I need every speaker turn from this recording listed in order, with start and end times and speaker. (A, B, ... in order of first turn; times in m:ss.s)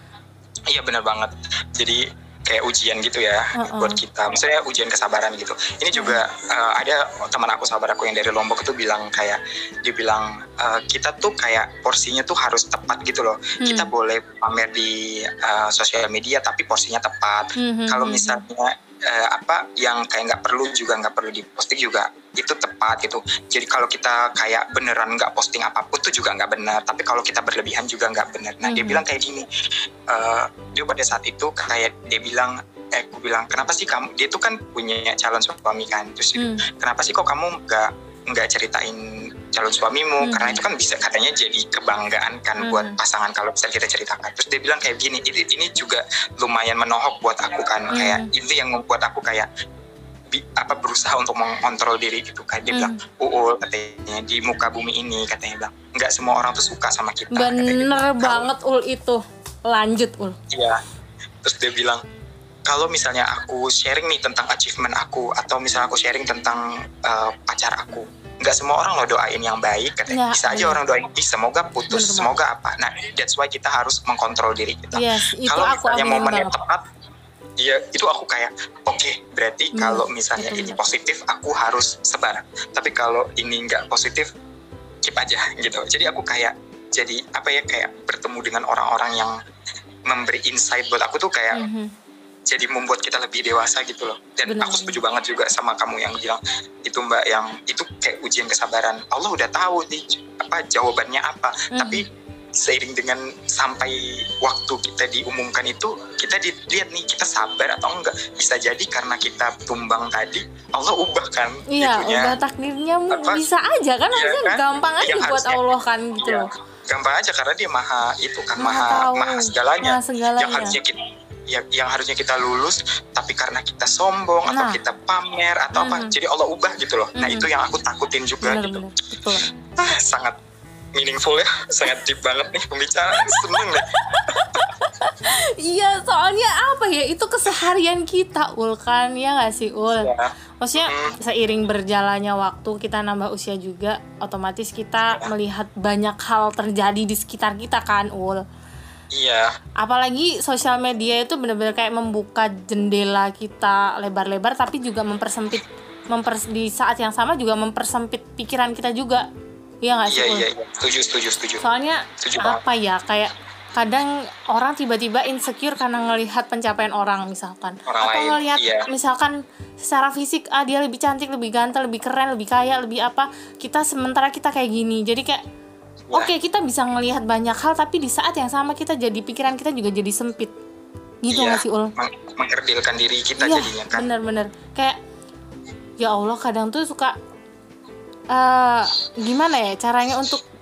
0:00.7-0:29.5 A
0:03.6-0:04.0 B
0:05.9-0:06.2 B
0:13.6-0:13.9 B
0:17.6-0:18.4 B
0:28.6-0:29.0 B
0:30.1-0:49.5 A
0:36.4-0:36.6 B
0:40.2-0:40.6 B
0:42.6-0:43.0 B
0:47.9-0:48.3 B
0:50.3-0:58.5 A
0:52.7-0:53.0 B
0:57.3-1:00.4 B
1:00.5-1:00.8 A
1:01.4-1:02.0 A
1:02.6-1:16.8 A
1:10.1-1:10.8 B
1:11.9-1:12.4 B
1:14.9-1:16.5 B
1:17.6-1:24.3 A
1:19.7-1:20.8 B
1:25.0-1:29.4 A
1:30.0-1:31.6 A
1:31.5-1:31.9 B
1:32.5-1:42.0 A
1:34.5-1:35.0 B
1:41.7-1:42.0 B
1:42.5-1:52.3 A
1:51.7-1:56.5 B
1:53.1-1:53.4 A
1:54.1-1:55.6 A
1:56.2-2:08.8 A
1:58.6-2:00.8 B
2:04.5-2:04.8 B
2:05.8-2:06.1 B
2:07.2-2:07.5 B
2:08.4-2:09.5 B
2:09.7-2:10.4 A
2:10.9-2:14.6 A
2:13.1-2:28.4 B
2:20.0-2:21.2 A
2:29.1-2:29.5 A
2:29.8-2:39.2 B
2:39.8-2:40.4 B
2:40.1-2:41.6 A
2:41.6-2:55.4 B
2:42.2-2:42.6 A
2:47.8-2:48.9 A
2:56.1-3:00.5 B
3:01.2-3:01.9 B
3:01.3-3:04.1 A
3:03.4-3:05.0 B
3:06.0-3:07.1 B
3:08.3-3:10.4 B